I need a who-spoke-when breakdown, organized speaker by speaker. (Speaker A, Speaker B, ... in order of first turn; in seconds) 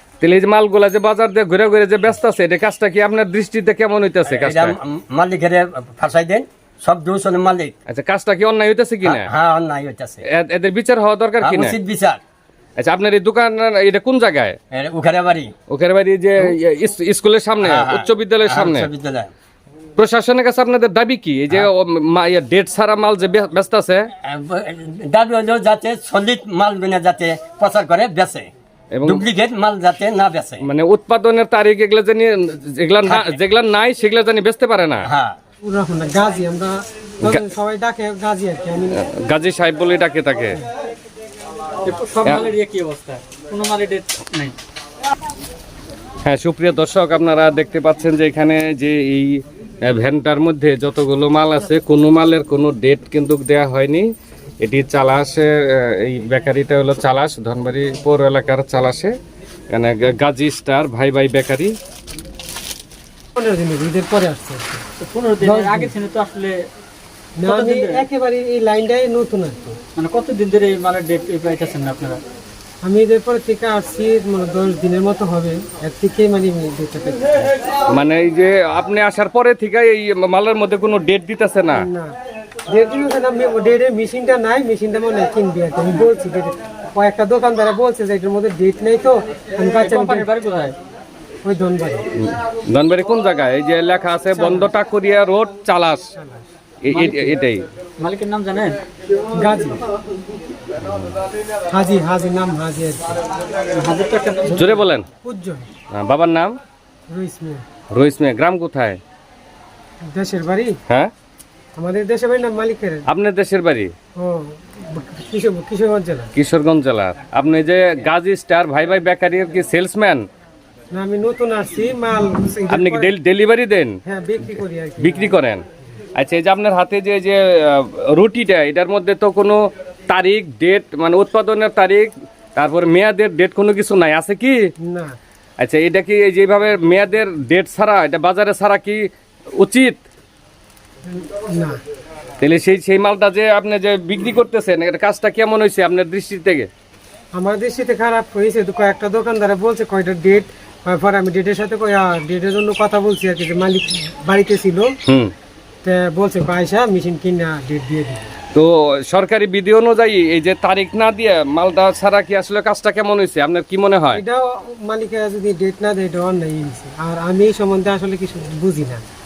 Speaker A: 0.2-4.7, 7.9-9.3, 10.2-11.8, 12.8-14.6, 15.7-18.9, 20.0-24.1, 28.9-29.2, 30.6-35.1, 38.9-40.6, 42.2-42.5, 46.2-54.1, 54.6-59.1, 59.7-61.7, 77.9-81.9, 92.2-96.1, 96.8-97.6, 100.8-101.2, 104.5-105.0, 105.9-106.5, 107.9-109.0, 113.1-113.9, 116.3-120.2, 122.7-125.6, 126.2-134.7, 135.6-140.0, 142.4-146.7, 155.1-155.3, 158.5-164.2
Speaker B: 4.2-7.7, 9.0-10.2, 11.4-12.2, 14.7-15.5, 17.6-19.3, 24.2-28.5, 29.1-30.6, 33.0-33.4, 35.0-35.4
Speaker C: 35.6-39.0, 63.4-64.8, 65.4-65.9, 67.4-69.8, 72.8-77.5, 81.7-82.1, 82.7-90.3, 91.4-92.1, 94.3-94.7, 96.1-96.4, 99.3-99.8, 101.7-103.2, 105.2-105.7, 107.1-107.6, 110.0-110.8, 111.8-113.0, 114.2-116.3, 120.9-123.1, 124.0-125.3, 134.8-135.2, 141.1-141.8, 147.3-154.9, 155.8-158.3, 164.1-169.0
Speaker D: 41.8-44.6, 65.0-66.7, 67.4-68.0, 70.0-72.2, 89.7-90.8, 96.9-97.4, 98.0-98.8, 103.7-104.8